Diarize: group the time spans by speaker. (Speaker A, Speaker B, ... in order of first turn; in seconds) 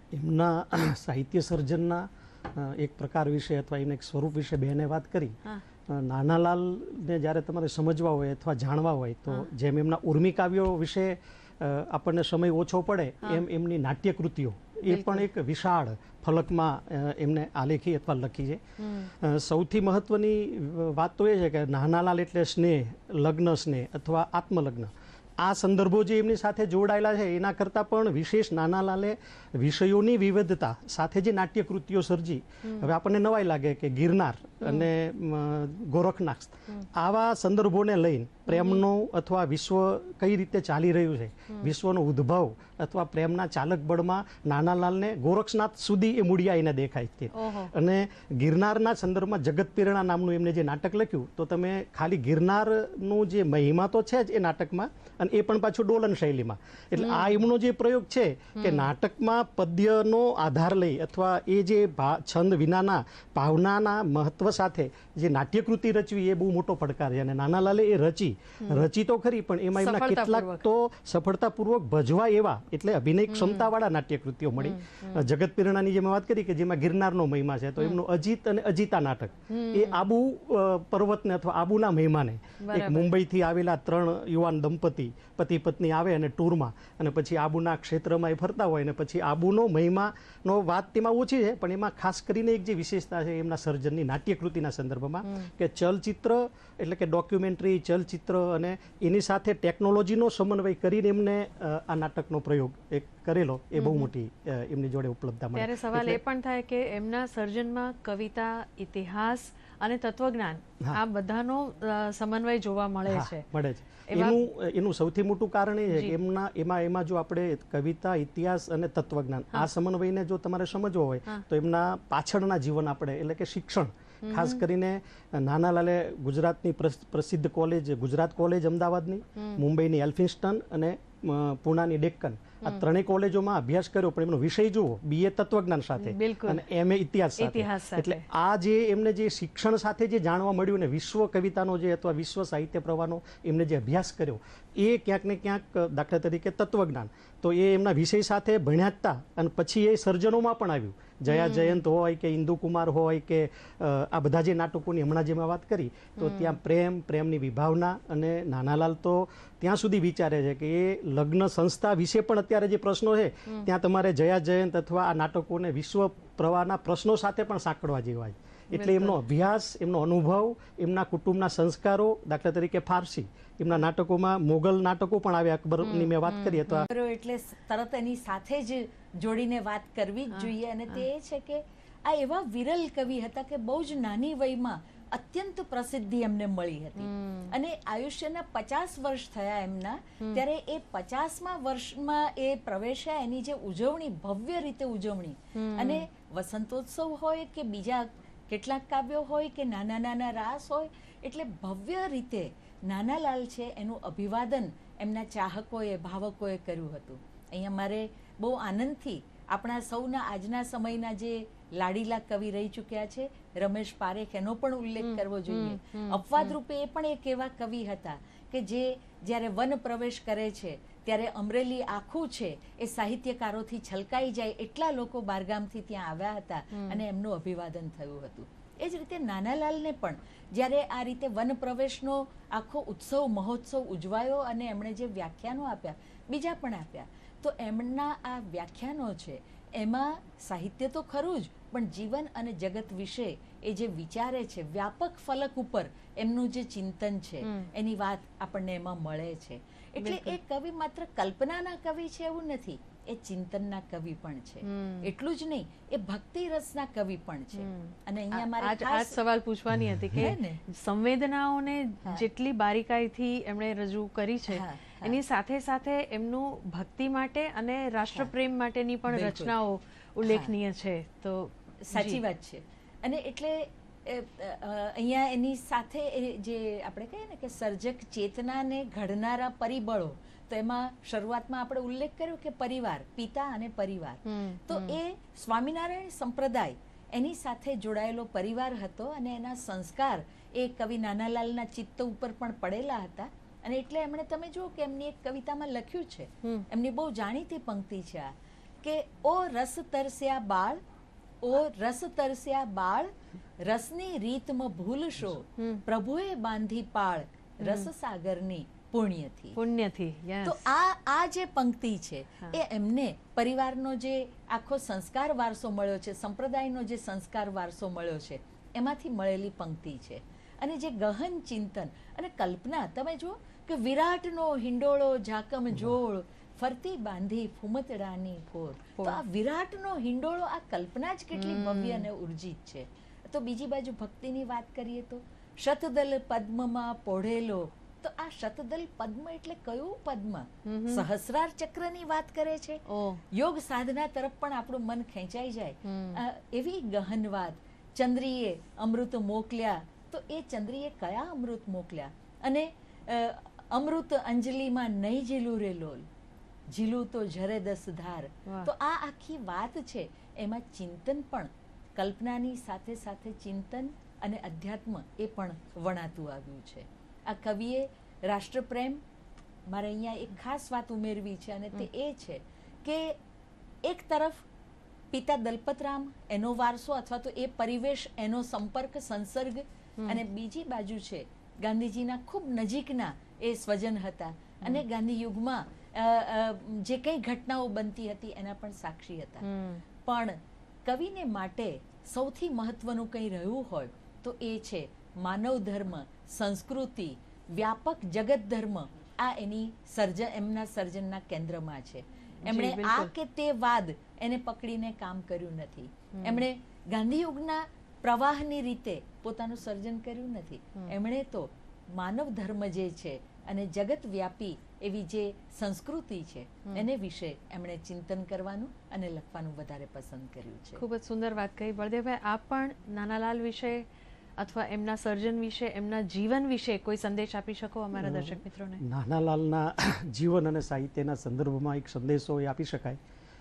Speaker A: 0.1-106.2, 113.1-176.9, 427.9-433.0
Speaker B: 14.8-15.3, 18.8-19.1, 32.6-32.9, 38.5-38.8, 47.3-47.7, 57.0-57.4, 58.5-58.9, 68.6-68.9, 69.7-70.6, 73.3-73.7, 74.6-75.3, 79.5-80.0, 82.6-83.1, 103.8-104.1, 105.5-113.5, 114.0-114.4, 124.2-124.6, 129.4-129.6, 136.0-136.6, 137.4-138.2, 151.3-151.8, 156.2-156.6, 168.7-169.1, 175.8-176.9, 180.3-181.0, 187.0-187.5, 195.6-196.0, 215.0-216.5, 226.8-227.0, 247.4-247.7, 250.0-250.4, 254.6-255.1, 257.5-272.2, 284.2-285.0, 307.6-307.9, 309.6-310.6, 331.3-332.1, 340.6-341.0, 342.9-343.2, 345.8-346.2, 358.4-358.7, 389.4-389.8, 402.4-403.1, 406.2-406.4, 420.8-423.8, 424.4-428.8
Speaker C: 176.9-259.2, 260.1-260.6, 264.5-265.2, 269.1-269.5, 270.2-270.5, 271.8-298.3, 298.8-300.8, 301.4-309.6, 310.4-356.1, 356.7-369.0, 369.7-373.2, 373.8-374.4, 375.1-389.4, 390.0-420.8